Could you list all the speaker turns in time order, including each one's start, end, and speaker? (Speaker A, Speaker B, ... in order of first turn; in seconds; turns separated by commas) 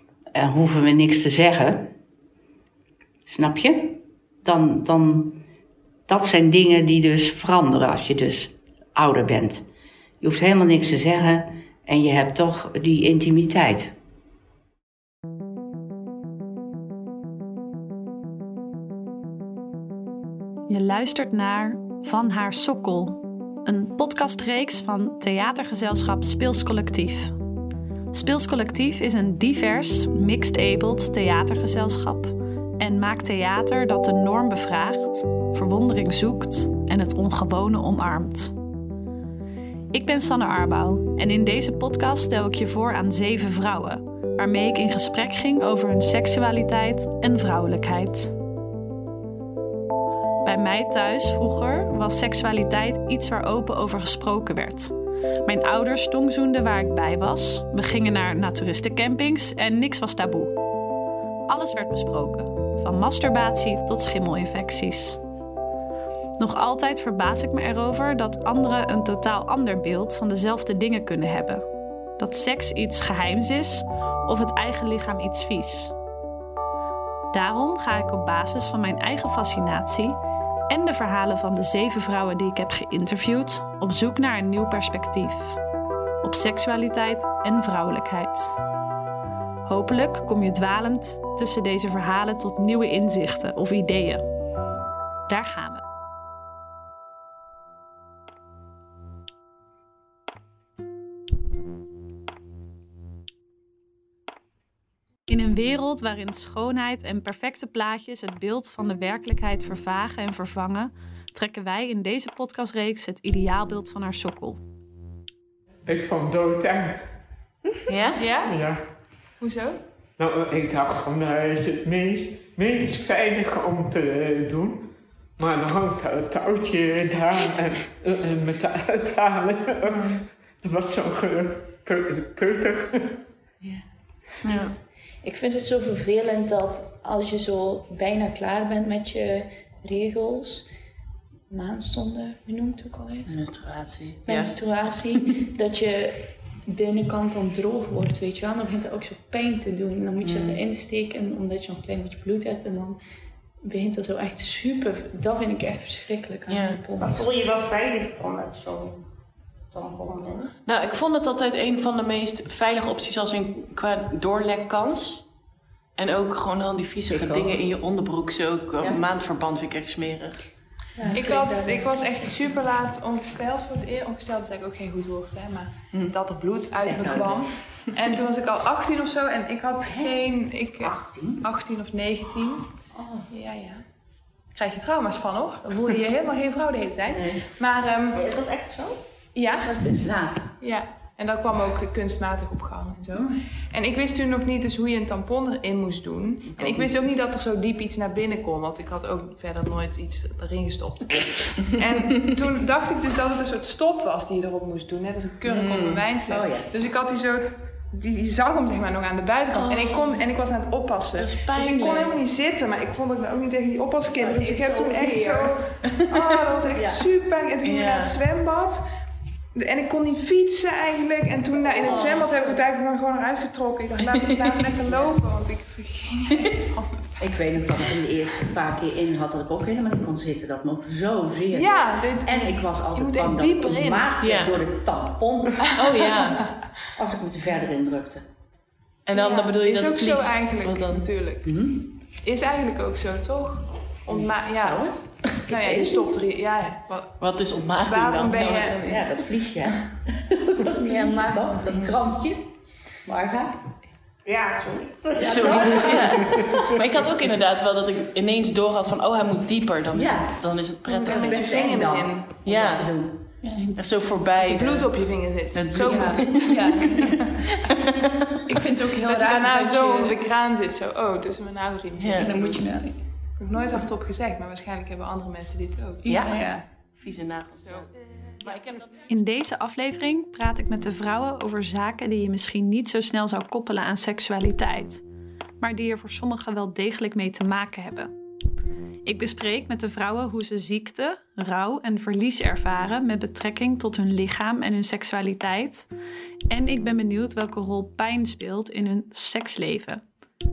Speaker A: 0.3-1.9, Speaker A: 3.2-5.4, Speaker A: 6.1-9.7, Speaker A: 10.2-13.9, Speaker B: 20.7-27.4, Speaker B: 28.1-38.5, Speaker B: 39.9-48.4, Speaker B: 50.4-54.9, Speaker B: 55.5-60.6, Speaker B: 61.5-65.2, Speaker B: 66.4-71.7, Speaker B: 72.2-75.9, Speaker B: 77.3-85.6, Speaker B: 86.2-88.6, Speaker B: 89.7-94.2, Speaker B: 95.3-95.8, Speaker B: 105.3-114.6, Speaker C: 115.9-117.0, Speaker D: 117.9-118.3, Speaker E: 118.2-118.6, Speaker C: 118.4-118.8, Speaker E: 119.4-119.8, Speaker C: 120.2-133.2, Speaker D: 134.4-134.8, Speaker F: 135.2-140.7, Speaker F: 141.5-143.4, Speaker D: 143.3-144.6, Speaker F: 144.2-153.0, Speaker D: 150.2-150.6, Speaker F: 153.7-157.3, Speaker D: 156.5-156.8, Speaker G: 157.0-159.1, Speaker G: 159.7-160.5, Speaker D: 160.7-165.3, Speaker D: 166.0-170.5, Speaker A: 167.1-167.5, Speaker F: 171.0-172.2, Speaker E: 171.1-182.7, Speaker D: 176.8-178.1, Speaker A: 179.8-180.2, Speaker A: 180.8-181.4, Speaker A: 182.9-183.3, Speaker E: 183.3-183.9, Speaker E: 184.5-188.3, Speaker A: 187.1-187.4, Speaker A: 188.1-189.0, Speaker E: 189.3-190.0, Speaker A: 189.5-190.5, Speaker E: 190.6-218.8, Speaker A: 196.5-196.9, Speaker D: 205.5-206.1, Speaker A: 206.3-206.7, Speaker D: 209.5-210.2, Speaker D: 211.2-212.2, Speaker A: 214.2-215.4, Speaker A: 216.7-217.0, Speaker D: 217.6-218.2, Speaker E: 219.6-227.2, Speaker A: 221.8-222.4, Speaker A: 227.2-236.0, Speaker E: 231.5-234.2, Speaker D: 234.2-234.6, Speaker D: 235.8-236.5, Speaker E: 235.8-236.2, Speaker A: 236.9-238.3, Speaker D: 239.1-241.1, Speaker E: 239.1-241.6, Speaker A: 241.4-241.9, Speaker E: 242.2-248.9, Speaker A: 244.1-246.1, Speaker D: 247.2-249.2, Speaker A: 248.5-253.7, Speaker F: 250.8-251.6, Speaker G: 254.2-255.8, Speaker D: 255.2-261.6, Speaker A: 255.2-256.4, Speaker A: 259.9-260.4, Speaker E: 261.0-262.4, Speaker A: 261.0-263.4, Speaker D: 262.4-262.9, Speaker F: 263.4-263.8, Speaker D: 263.8-268.3, Speaker E: 264.4-267.1, Speaker F: 265.9-266.9, Speaker F: 268.7-270.1, Speaker E: 268.7-276.1, Speaker D: 272.0-272.4, Speaker F: 272.1-273.1, Speaker D: 276.0-279.1, Speaker F: 276.1-276.6, Speaker B: 279.1-285.0, Speaker B: 285.6-288.1, Speaker B: 289.1-295.9, Speaker B: 296.5-300.0